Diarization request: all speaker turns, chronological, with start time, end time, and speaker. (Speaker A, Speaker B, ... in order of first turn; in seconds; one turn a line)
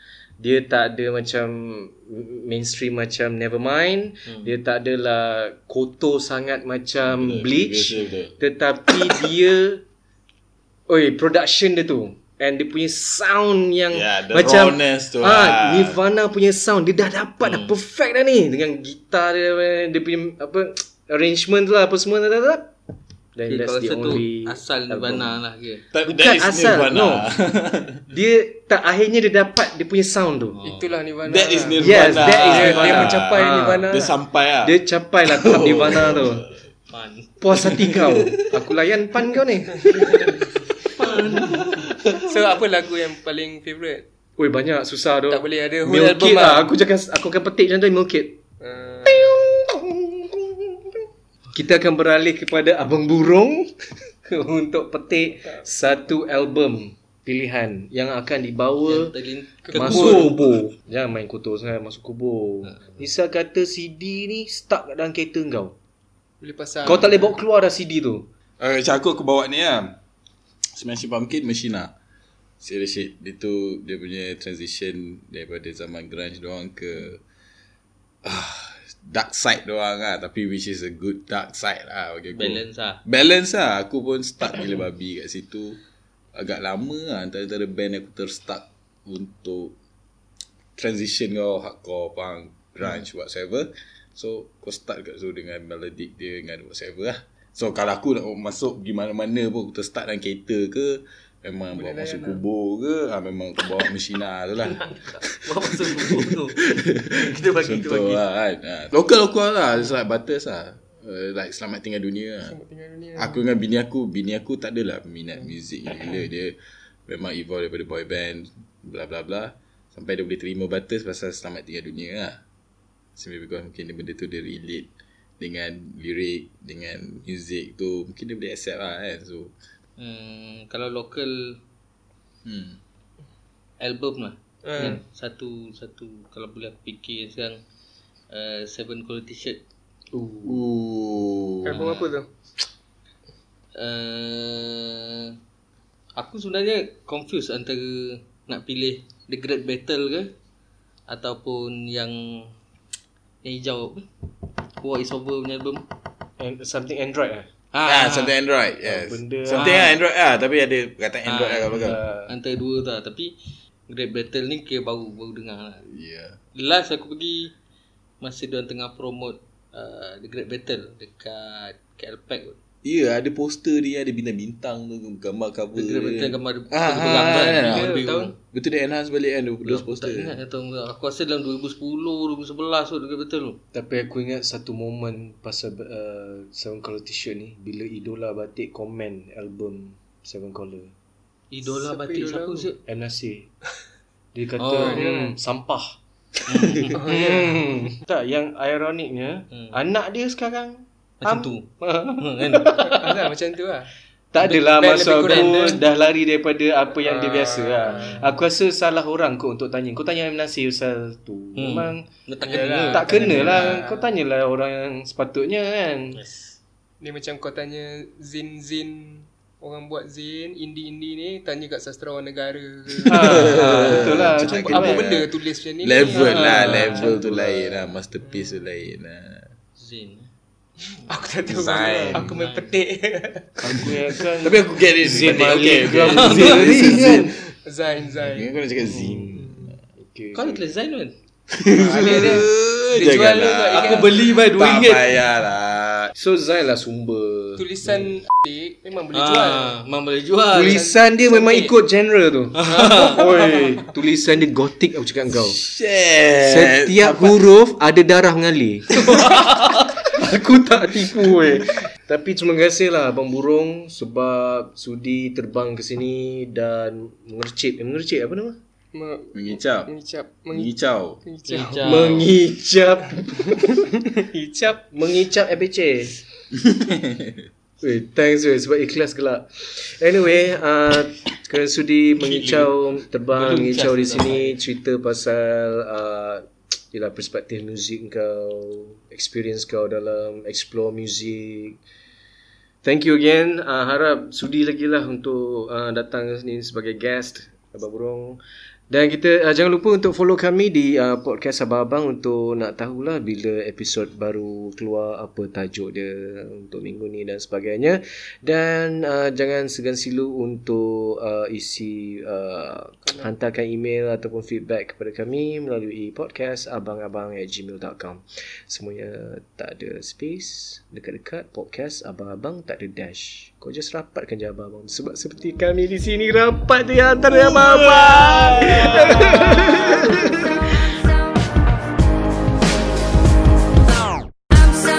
Speaker A: 0.4-9.8
Speaker B: 7.0-8.4
Speaker A: 10.9-22.7
Speaker B: 13.9-16.0
Speaker C: 17.4-17.7
Speaker A: 23.3-25.4
Speaker C: 23.5-25.8
Speaker B: 25.9-28.0
Speaker A: 26.0-27.3
Speaker A: 28.1-30.6
Speaker C: 30.6-31.0
Speaker D: 30.6-34.1
Speaker B: 31.2-36.5
Speaker A: 31.8-34.0
Speaker A: 34.6-36.5
Speaker C: 36.9-38.2
Speaker A: 37.4-40.5
Speaker C: 40.9-41.9
Speaker D: 42.0-44.0
Speaker A: 44.4-48.4
Speaker D: 45.3-46.7
Speaker D: 48.6-49.3
Speaker A: 49.0-50.9
Speaker A: 51.5-59.1
Speaker C: 58.9-60.5
Speaker D: 59.6-60.3
Speaker A: 59.7-65.8
Speaker D: 66.4-67.3
Speaker A: 66.8-68.3
Speaker B: 68.6-70.0
Speaker B: 70.7-71.9
Speaker B: 72.6-77.2
Speaker B: 78.2-85.8
Speaker C: 82.3-83.0
Speaker B: 86.3-89.7
Speaker B: 90.8-112.6
Speaker D: 101.7-102.4
Speaker C: 104.7-108.2
Speaker D: 112.5-113.4
Speaker B: 113.2-116.5
Speaker B: 117.1-122.4
Speaker B: 123.2-124.9
Speaker B: 125.4-129.5
Speaker C: 130.0-131.6
Speaker B: 132.4-132.8
Speaker C: 133.8-137.6
Speaker D: 134.6-135.0
Speaker C: 138.3-139.6
Speaker A: 140.1-140.6
Speaker B: 140.4-141.8
Speaker D: 141.6-142.3
Speaker C: 141.7-142.2
Speaker C: 143.7-145.4
Speaker C: 146.2-150.3
Speaker C: 151.1-152.5
Speaker C: 153.4-154.2
Speaker C: 154.8-155.8
Speaker A: 156.4-157.5
Speaker C: 157.7-158.3
Speaker B: 157.8-162.0
Speaker A: 158.8-159.8
Speaker C: 159.5-159.9
Speaker C: 161.2-163.3
Speaker A: 161.8-162.3
Speaker C: 163.9-165.8
Speaker B: 165.8-166.4
Speaker C: 166.5-167.5
Speaker C: 168.2-172.6
Speaker B: 172.8-177.9
Speaker C: 175.7-178.3
Speaker D: 177.4-178.3
Speaker B: 178.5-180.3
Speaker C: 179.6-183.6
Speaker A: 183.7-190.9
Speaker C: 191.5-192.8
Speaker D: 191.7-192.7
Speaker A: 192.8-193.5
Speaker A: 194.3-203.3
Speaker C: 194.6-195.0
Speaker D: 194.8-195.3
Speaker C: 196.5-197.0
Speaker D: 196.9-197.9
Speaker C: 201.2-202.7
Speaker D: 202.8-203.9
Speaker A: 204.3-216.2
Speaker D: 204.4-205.8
Speaker C: 205.2-205.8
Speaker D: 207.0-208.3
Speaker C: 207.9-208.3
Speaker C: 211.6-213.8
Speaker D: 212.4-214.1
Speaker D: 217.0-227.2
Speaker A: 223.1-225.0
Speaker B: 223.2-225.3
Speaker B: 225.8-229.5
Speaker C: 226.1-227.2
Speaker A: 226.7-227.4
Speaker D: 228.2-228.6
Speaker C: 229.8-230.3
Speaker D: 230.9-233.9
Speaker B: 231.5-232.3
Speaker C: 232.1-232.8
Speaker A: 233.6-237.4
Speaker B: 234.4-237.3
Speaker C: 235.9-236.9
Speaker D: 237.6-238.5
Speaker B: 238.3-239.7
Speaker A: 238.8-240.7
Speaker D: 239.3-239.6
Speaker C: 240.3-241.1
Speaker B: 241.5-246.1
Speaker C: 241.7-245.1
Speaker D: 241.9-242.4
Speaker D: 243.0-244.1
Speaker A: 246.1-247.9
Speaker D: 247.6-249.8
Speaker C: 249.1-251.7
Speaker A: 250.5-255.6
Speaker D: 250.6-250.9
Speaker C: 252.6-253.2
Speaker D: 252.9-253.6
Speaker B: 255.3-257.4
Speaker A: 256.4-268.6
Speaker D: 268.9-270.7
Speaker B: 269.3-269.9
Speaker B: 270.5-271.2
Speaker D: 271.2-272.2
Speaker C: 271.5-272.3
Speaker A: 271.8-273.9
Speaker D: 273.6-274.9
Speaker A: 274.9-276.2
Speaker B: 276.5-277.5
Speaker A: 277.8-291.8
Speaker C: 283.3-284.6
Speaker A: 292.8-330.9
Speaker B: 327.3-330.0